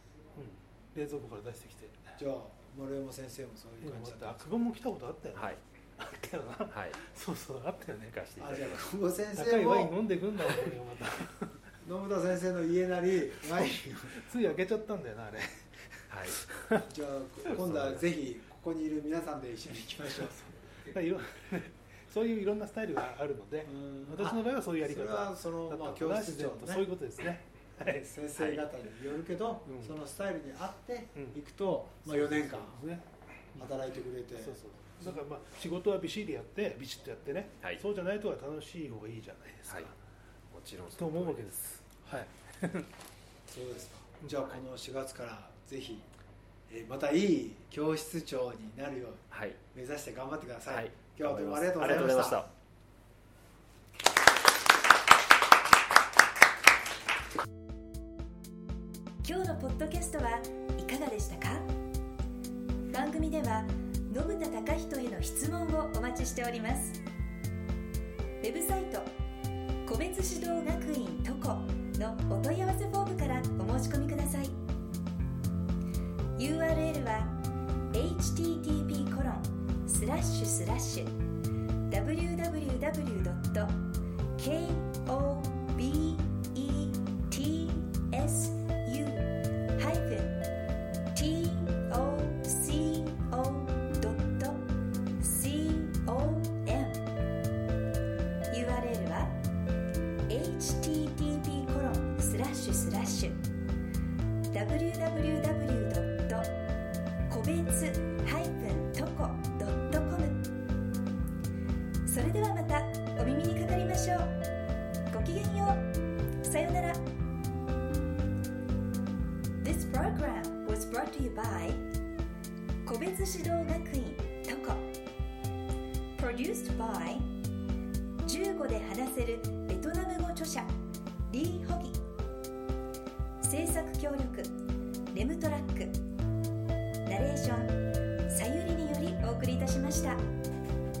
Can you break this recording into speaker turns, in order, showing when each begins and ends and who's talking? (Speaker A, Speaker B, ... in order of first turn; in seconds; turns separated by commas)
Speaker A: 0.3-2.1, Speaker B: 2.2-4.5, Speaker A: 3.8-8.2, Speaker C: 5.3-5.6, Speaker C: 6.7-7.0, Speaker C: 8.1-8.8, Speaker B: 8.4-10.0, Speaker A: 9.3-11.7, Speaker B: 11.8-14.2, Speaker A: 13.6-16.8, Speaker C: 16.1-16.4, Speaker B: 16.8-20.4, Speaker C: 17.7-18.0, Speaker A: 20.2-28.1, Speaker B: 23.6-26.9, Speaker B: 27.8-32.8, Speaker C: 28.4-28.6, Speaker A: 29.7-29.9, Speaker A: 32.0-33.7, Speaker B: 33.5-35.2, Speaker A: 34.4-40.0, Speaker C: 40.5-41.6, Speaker A: 41.0-42.9, Speaker B: 43.5-46.1, Speaker B: 46.7-52.5, Speaker C: 49.3-49.6, Speaker C: 50.7-52.5, Speaker D: 59.2-61.7, Speaker D: 62.9-67.0, Speaker D: 68.4-69.1, Speaker D: 69.8-74.5, Speaker D: 76.4-77.3, Speaker D: 77.9-81.1, Speaker D: 81.9-83.7, Speaker D: 84.3-90.4, Speaker D: 91.1-94.6, Speaker D: 95.2-97.0, Speaker D: 98.5-99.3, Speaker D: 100.3-103.4, Speaker D: 104.5-106.5, Speaker D: 107.3-110.4, Speaker D: 112.0-114.3, Speaker D: 115.1-115.8, Speaker D: 116.4-117.0, Speaker D: 119.6-121.8, Speaker D: 122.8-124.8, Speaker D: 126.2-127.3, Speaker D: 128.2-130.7, Speaker D: 131.3-132.0, Speaker D: 133.4-134.5, Speaker D: 135.1-136.0, Speaker D: 137.0-137.7, Speaker D: 138.3-140.2